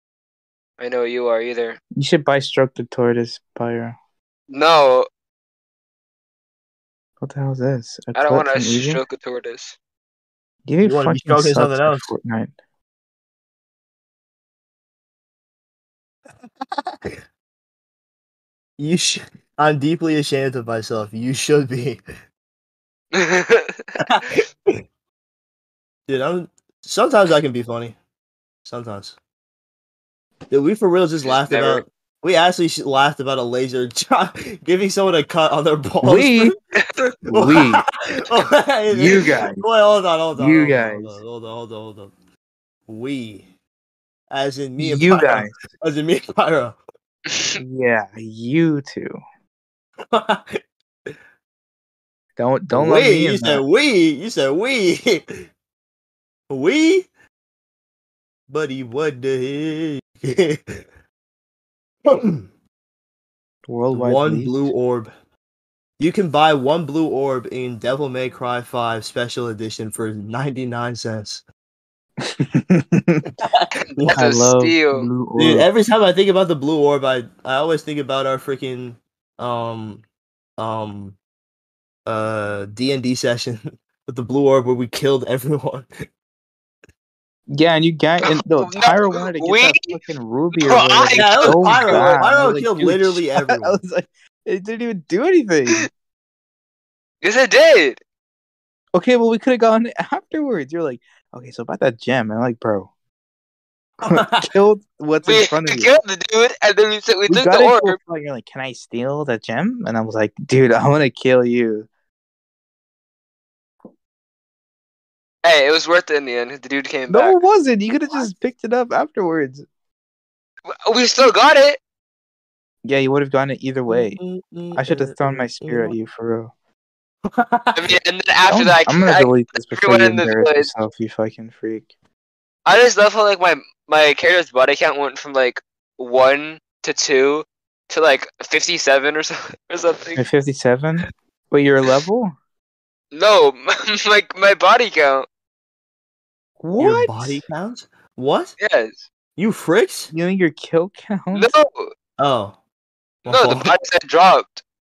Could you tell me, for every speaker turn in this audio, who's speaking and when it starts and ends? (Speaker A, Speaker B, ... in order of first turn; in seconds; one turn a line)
Speaker A: 0.8-1.8
Speaker B: 2.0-4.0
Speaker A: 4.5-5.1
Speaker B: 7.2-9.0
Speaker A: 8.2-9.8
Speaker B: 10.7-12.5
Speaker C: 10.8-12.1
Speaker C: 16.7-17.2
Speaker C: 18.8-22.0
Speaker A: 23.1-23.9
Speaker C: 24.0-24.8
Speaker C: 26.1-28.0
Speaker C: 28.6-29.1
Speaker C: 30.5-42.1
Speaker A: 31.3-31.8
Speaker B: 36.0-36.5
Speaker B: 37.3-37.9
Speaker B: 38.9-39.6
Speaker B: 40.4-41.2
Speaker C: 42.9-43.5
Speaker C: 44.3-46.8
Speaker B: 44.8-45.5
Speaker A: 47.3-47.6
Speaker B: 47.6-49.2
Speaker C: 50.1-51.1
Speaker B: 52.4-53.7
Speaker C: 52.7-55.4
Speaker C: 56.5-57.1
Speaker C: 58.5-60.8
Speaker C: 62.1-62.5
Speaker B: 63.7-64.7
Speaker C: 63.9-65.1
Speaker C: 66.0-71.4
Speaker B: 72.2-73.3
Speaker C: 73.4-74.2
Speaker A: 73.9-75.1
Speaker B: 74.1-75.7
Speaker C: 75.4-80.0
Speaker C: 80.6-81.2
Speaker C: 82.1-85.9
Speaker B: 87.5-95.9
Speaker A: 88.2-90.0
Speaker A: 90.5-92.1
Speaker C: 91.2-93.8
Speaker A: 97.2-98.0
Speaker B: 99.0-102.9
Speaker C: 104.0-104.5
Speaker B: 104.1-105.9
Speaker A: 105.2-108.0
Speaker B: 107.3-111.9
Speaker A: 115.4-117.4
Speaker B: 117.1-119.7
Speaker A: 120.7-121.8
Speaker B: 122.8-124.2
Speaker C: 123.9-125.9
Speaker B: 124.8-126.5
Speaker C: 127.3-127.8
Speaker A: 127.8-130.7
Speaker B: 128.5-131.9
Speaker A: 132.7-140.2
Speaker B: 140.2-142.3
Speaker A: 143.1-145.3
Speaker B: 146.6-147.4
Speaker C: 146.8-148.6
Speaker A: 148.6-149.1
Speaker C: 149.4-150.1
Speaker B: 150.1-151.5
Speaker A: 151.3-151.9
Speaker C: 152.2-152.6
Speaker C: 153.2-153.7
Speaker A: 153.3-154.6